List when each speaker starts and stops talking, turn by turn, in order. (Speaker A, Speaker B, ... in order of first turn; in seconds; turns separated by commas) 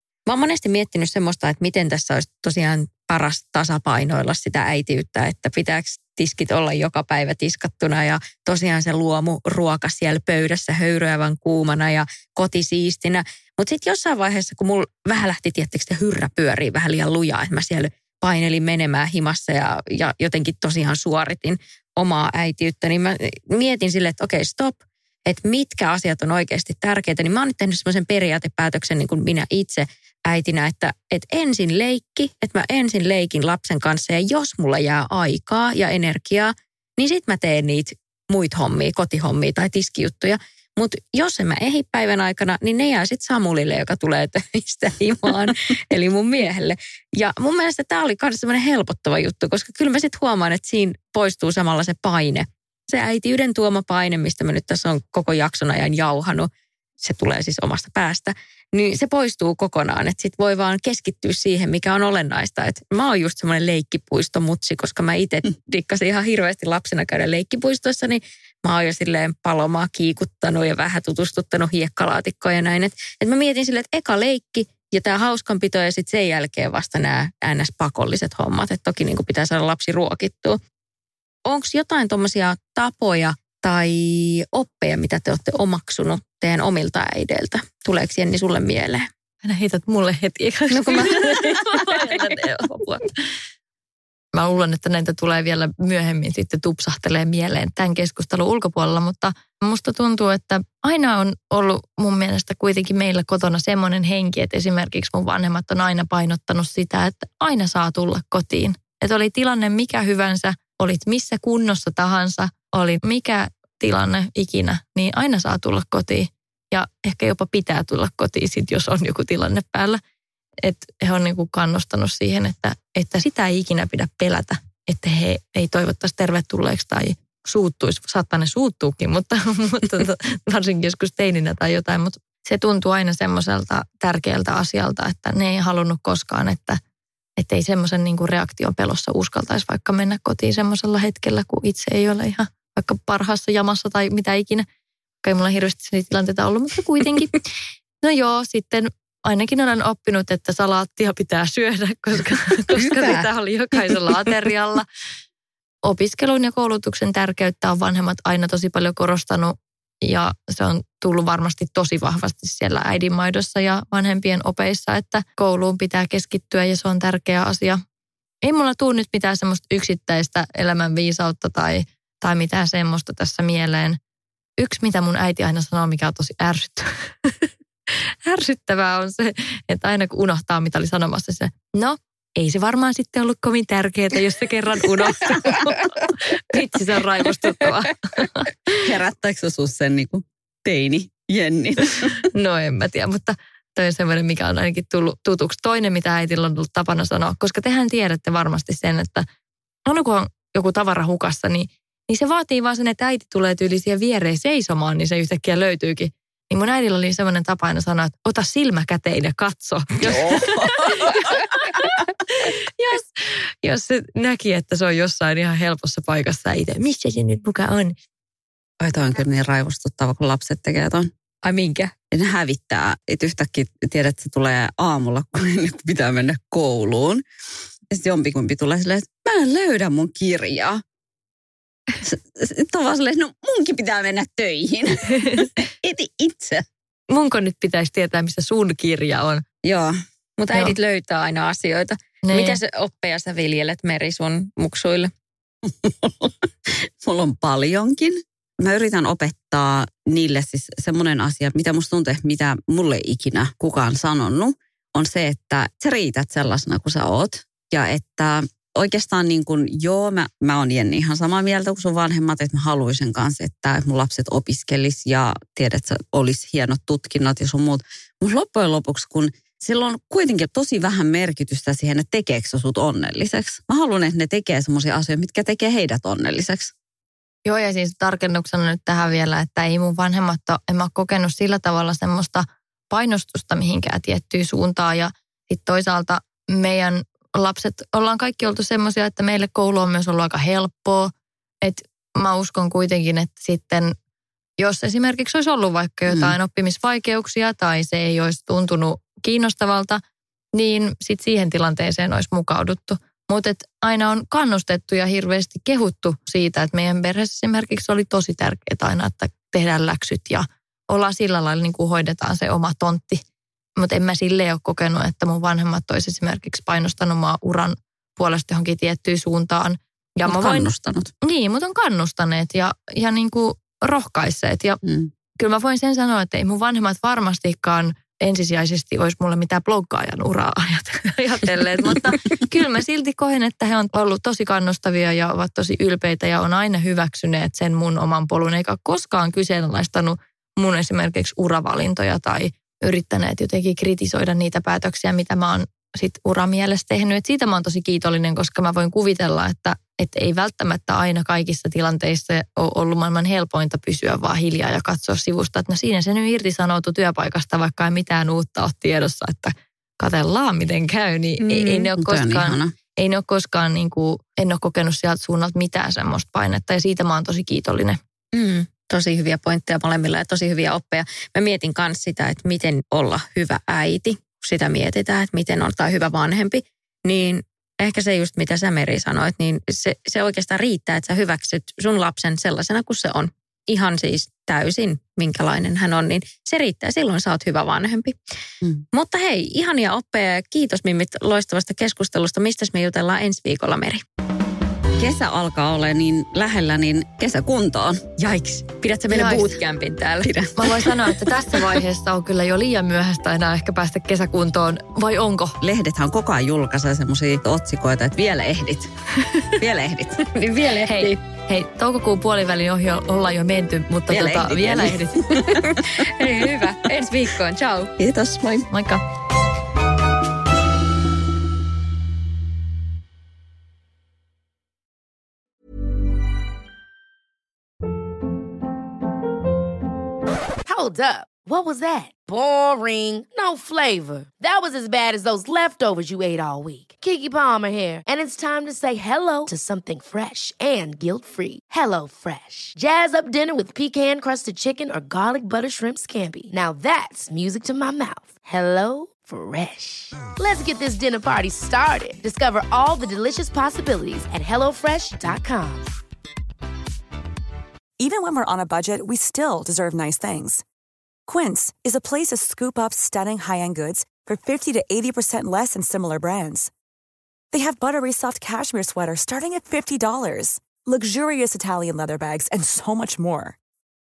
Speaker A: 0.3-56.5, Speaker A: 57.0-80.6, Speaker A: 81.5-89.1, Speaker B: 89.4-93.1, Speaker A: 90.7-92.4, Speaker B: 94.3-120.0, Speaker B: 120.6-136.8, Speaker B: 137.4-144.7, Speaker B: 145.2-147.5, Speaker B: 148.0-154.9, Speaker C: 152.8-153.3, Speaker B: 155.8-167.8, Speaker B: 168.4-174.0, Speaker B: 174.6-188.8, Speaker C: 188.8-192.3, Speaker B: 192.3-199.3, Speaker B: 199.9-211.2, Speaker C: 210.1-211.2, Speaker B: 211.9-217.9, Speaker C: 218.8-221.1, Speaker A: 221.4-221.9, Speaker C: 222.1-227.2, Speaker C: 227.9-230.8, Speaker C: 232.0-236.7, Speaker B: 237.1-239.4, Speaker C: 239.6-240.0, Speaker A: 240.4-245.1, Speaker B: 242.2-242.6, Speaker C: 245.7-276.7, Speaker B: 277.4-293.9, Speaker B: 294.6-300.0, Speaker C: 296.1-296.4, Speaker B: 300.5-313.2, Speaker B: 313.8-320.7, Speaker C: 320.3-321.1, Speaker B: 321.2-324.8, Speaker C: 324.8-325.1, Speaker B: 325.4-368.0, Speaker A: 361.4-361.9, Speaker C: 362.0-362.8, Speaker A: 368.3-388.2, Speaker A: 388.9-394.0, Speaker C: 395.0-398.0, Speaker A: 398.2-400.3, Speaker B: 399.1-399.6, Speaker C: 400.2-401.2, Speaker B: 400.6-405.6, Speaker C: 405.6-408.9, Speaker C: 409.6-410.2, Speaker A: 410.3-411.2, Speaker B: 410.9-415.2, Speaker C: 414.1-415.1, Speaker A: 415.4-417.9, Speaker C: 418.0-418.7, Speaker B: 418.7-419.0, Speaker D: 430.6-455.9, Speaker E: 458.0-460.6, Speaker E: 461.3-466.7, Speaker E: 467.5-473.6